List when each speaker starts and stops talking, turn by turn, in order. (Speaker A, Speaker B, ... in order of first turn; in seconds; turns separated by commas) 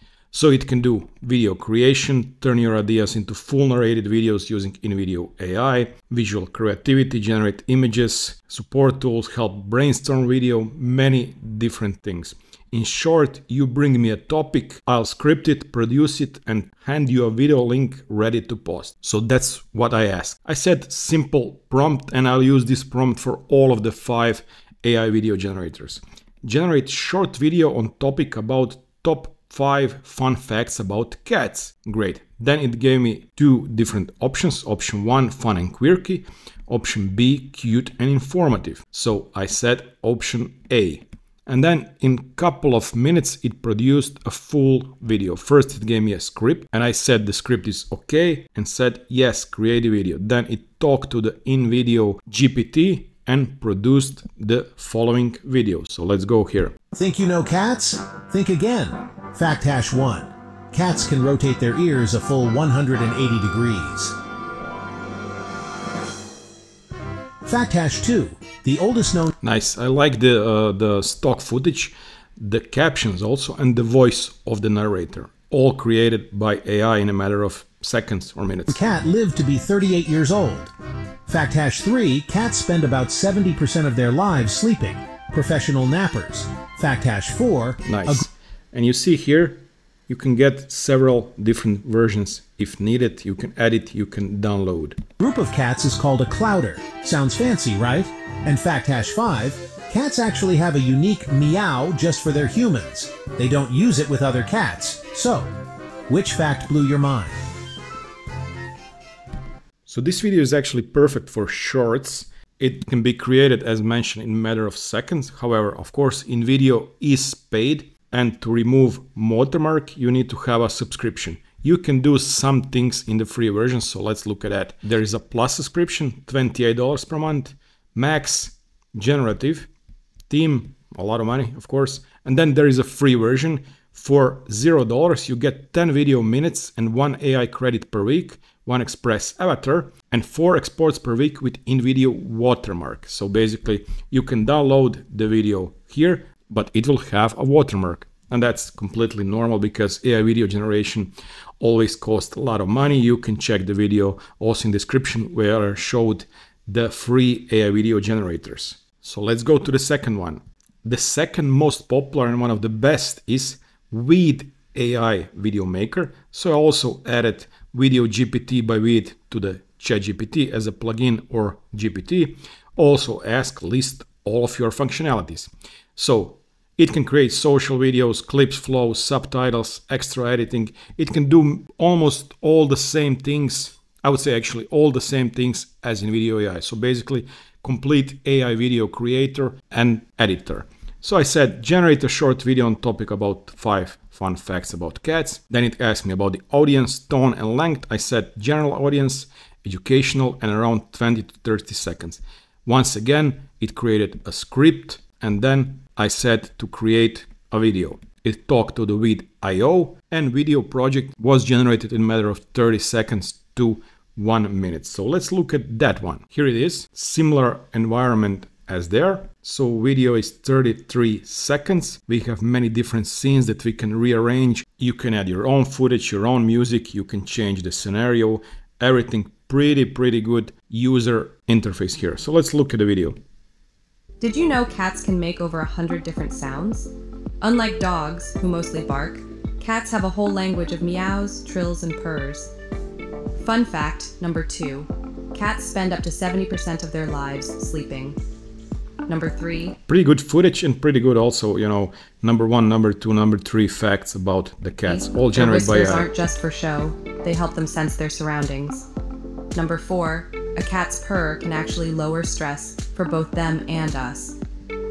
Speaker A: 0.3-56.7, Speaker B: 56.9-64.2, Speaker B: 67.5-69.3, Speaker A: 69.4-78.8, Speaker B: 78.7-80.7, Speaker B: 81.3-88.3, Speaker A: 87.9-95.0, Speaker B: 95.2-105.5, Speaker B: 106.1-107.4, Speaker A: 109.9-129.7, Speaker A: 130.3-233.2, Speaker C: 234.2-236.9, Speaker C: 237.4-242.5, Speaker C: 243.4-248.2, Speaker C: 249.1-249.8, Speaker A: 249.9-256.1, Speaker C: 254.9-258.9, Speaker C: 259.5-264.4